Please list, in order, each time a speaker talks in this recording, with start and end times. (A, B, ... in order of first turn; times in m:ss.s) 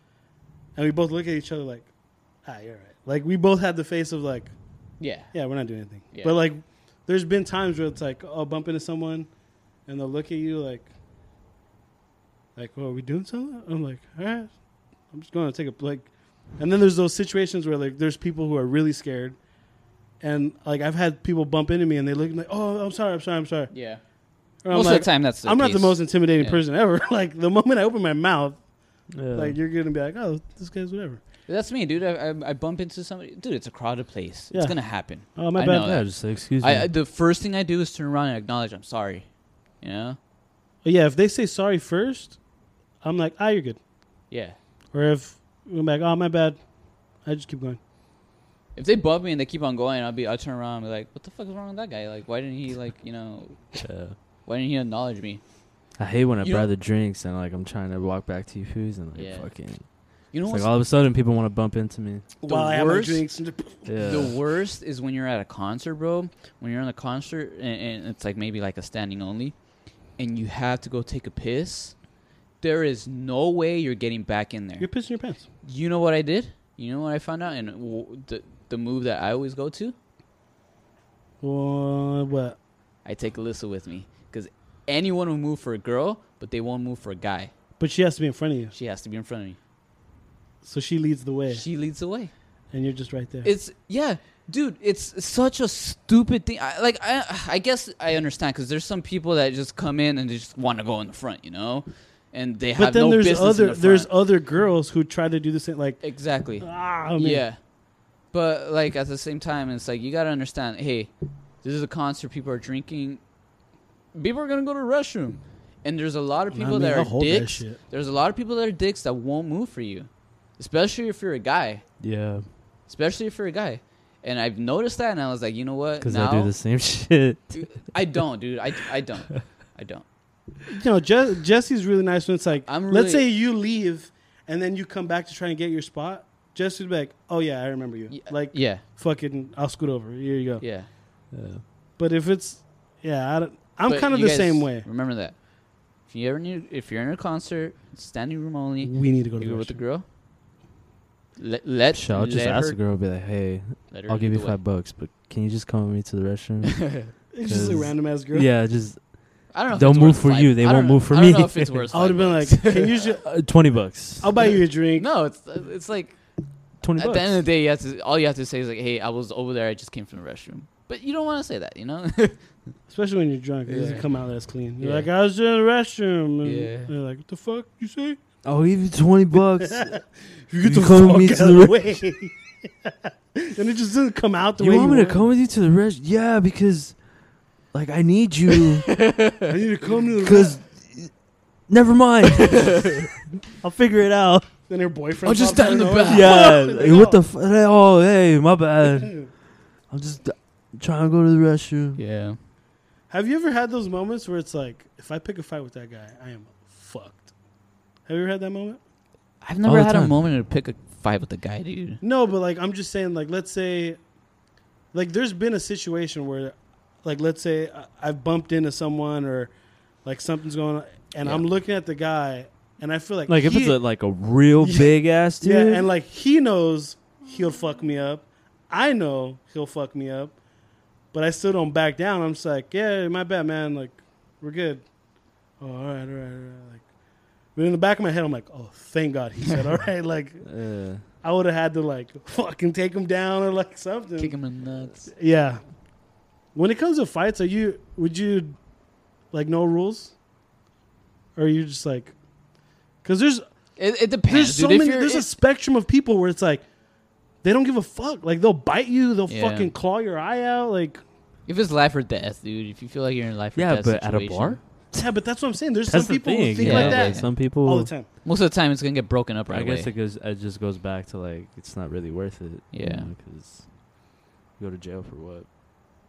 0:00.8-0:01.9 A
0:02.4-0:04.5 A
0:05.0-0:05.3 B
0:05.3-0:09.3 A
0:09.9-0:10.9 A
0:12.6-0:14.5 A
0:15.1-0:19.4 A
0:20.2-0:23.7 A
0:23.7-0:24.0 B
0:24.6-0:28.6 A
0:24.7-0:26.6 B
0:29.1-0:29.6 C
0:29.3-0:31.2 A
0:31.5-0:39.3 B
0:34.5-0:35.9 A
0:35.8-0:36.9 C
0:39.8-0:40.2 B
0:40.8-0:42.4 A
0:43.0-0:43.8 A
0:44.3-0:44.6 B
0:44.9-0:46.6 A
0:47.2-0:47.8 A
0:48.8-0:53.6 B
0:53.8-0:54.2 C
0:54.4-0:55.4 B
0:56.0-0:59.9 C
0:56.4-0:56.7 B
0:59.2-0:59.5 B
1:00.3-1:00.7 B
1:00.4-1:02.3 C
1:02.4-1:04.3 A
1:02.5-1:03.3 B
1:03.9-1:04.3 C
1:04.0-1:09.6 B
1:10.2-1:12.0 B
1:12.6-1:14.9 B
1:14.8-1:15.5 A
1:15.6-1:20.0 B
1:21.4-1:22.6 A
1:23.0-1:27.5 B
1:27.8-1:28.7 A
1:28.7-1:29.6 B
1:30.6-1:31.6 A
1:31.5-1:32.3 B
1:32.7-1:33.5 A
1:33.4-1:44.1 B
1:42.8-1:47.4 A
1:46.0-1:47.6 B
1:48.3-1:51.1 B
1:51.6-1:53.2 B
1:54.1-2:01.9 B
1:56.5-1:57.8 A
2:02.0-2:02.4 C
2:02.9-2:06.5 B
2:06.0-2:07.6 C
2:07.5-2:10.0 B
2:10.7-2:20.6 A
2:12.7-2:13.3 B
2:18.1-2:18.8 B
2:20.6-2:20.9 B
2:21.3-2:21.6 C
2:22.0-2:24.9 A
2:23.9-2:25.4 B
2:26.1-2:30.0 B
2:28.8-2:29.8 A
2:31.4-2:32.8 B
2:31.9-2:41.9 C
2:33.9-2:34.6 B
2:36.7-2:37.1 B
2:37.3-2:38.5 A
2:39.5-2:43.1 B
2:41.9-2:43.3 A
2:43.2-2:44.3 C
2:44.2-2:45.1 A
2:45.0-2:46.2 B
2:46.8-2:47.4 C
2:47.0-2:52.4 B
2:52.9-2:58.2 A
2:53.7-2:54.1 B
2:54.8-2:55.1 B
2:56.4-2:56.9 B
2:58.4-3:00.0 C
2:59.6-3:05.2 A
3:00.6-3:01.8 C
3:04.6-3:07.0 C
3:07.7-3:09.0 C
3:09.0-3:09.5 B
3:09.5-3:10.6 A
3:10.2-3:11.2 C
3:11.7-3:14.5 C
3:14.7-3:17.2 A
3:15.2-3:16.5 B
3:16.1-3:22.0 C
3:19.0-3:19.3 A
3:22.0-3:22.4 B
3:23.1-3:27.3 A
3:28.1-3:28.8 A
3:29.4-3:32.0 B
3:29.6-3:30.2 C
3:32.0-3:34.0 A
3:34.9-3:39.5 A
3:40.0-3:43.8 A
3:43.3-3:45.9 C
3:44.6-3:50.4 A
3:51.1-3:54.8 A
3:55.6-3:56.8 A
3:57.6-4:04.4 A
4:00.4-4:01.0 C
4:04.2-4:05.1 B
4:05.1-4:05.6 A
4:06.5-4:08.6 A
4:09.3-4:10.1 A
4:11.4-4:12.1 A
4:13.0-4:13.4 A
4:13.8-4:15.3 B
4:14.3-4:16.6 A
4:17.4-4:21.0 A
4:19.3-4:19.7 B
4:21.5-4:24.6 B
4:23.6-4:25.1 C
4:25.0-4:28.1 A
4:25.9-4:27.9 C
4:26.6-4:27.3 B
4:28.2-4:29.9 B
4:29.5-4:33.7 C
4:32.7-4:33.1 B
4:34.6-4:35.5 C